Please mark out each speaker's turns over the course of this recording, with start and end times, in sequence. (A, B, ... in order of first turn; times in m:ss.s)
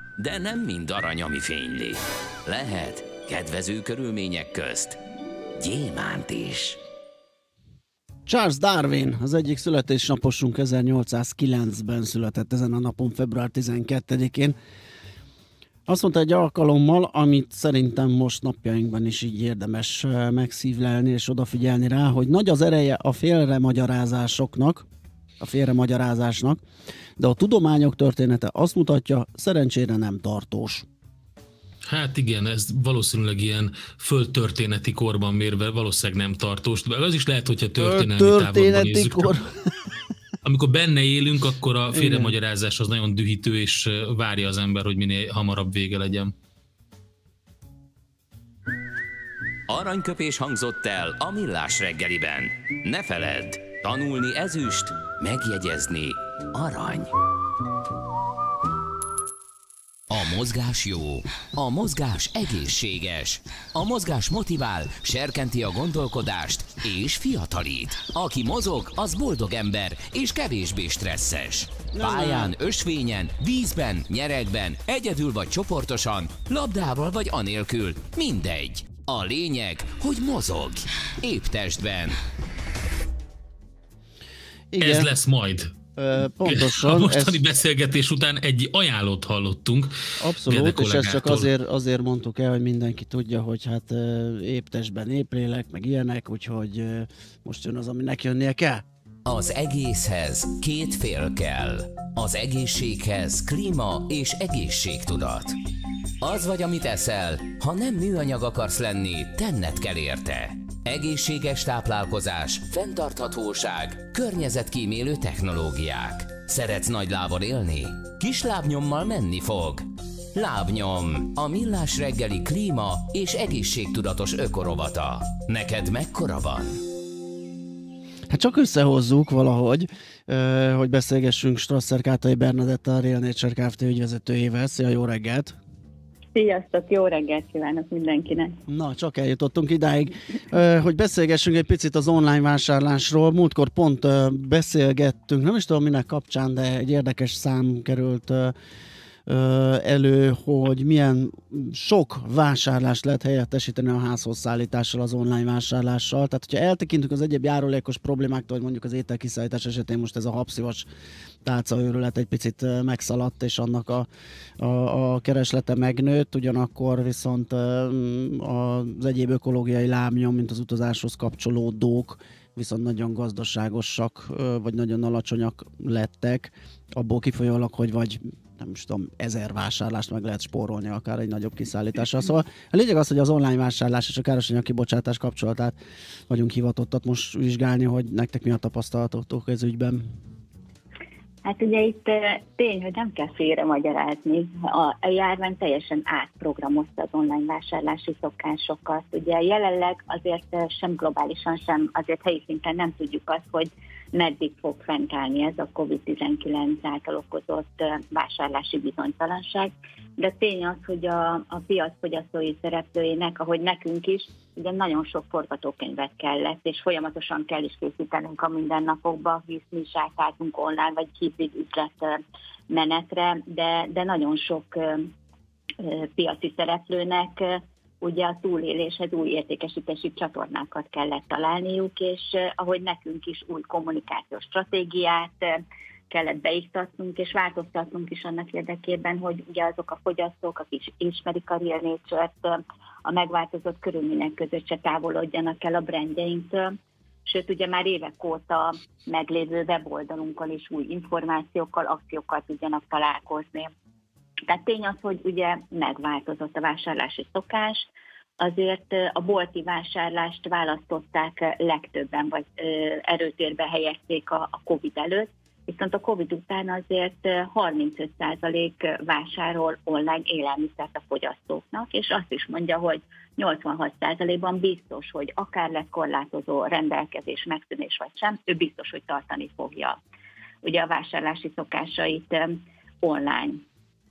0:00.2-0:05.0 A
0:05.6-0:06.8 A
0:08.3-0:14.6 B
0:15.9-0:24.9 B
0:25.4-0:26.6 B
0:27.2-0:30.9 B
0:31.9-0:39.3 C
0:37.8-0:39.7 B
0:40.4-0:46.3 C
0:41.9-0:42.3 B
0:49.7-0:57.1 A
1:00.1-1:22.2 A
1:11.9-1:12.5 B
1:24.7-1:25.1 B
1:24.8-1:25.7 C
1:26.0-1:27.4 B
1:26.4-1:29.9 C
1:30.2-1:38.8 B
1:30.4-1:31.5 C
1:39.3-1:45.6 A
1:46.2-2:06.8 A
2:08.3-2:15.6 B
2:16.3-2:18.6 D
2:18.7-2:28.5 B
2:29.3-2:40.9 B
2:41.4-2:44.1 B
2:44.6-3:05.7 B
3:06.3-3:10.0 B
3:11.4-3:42.2 D
3:42.7-3:45.1 D
3:45.8-4:06.7 D
4:07.2-4:13.7 D
4:14.5-4:40.0 D
4:40.6-4:43.6 D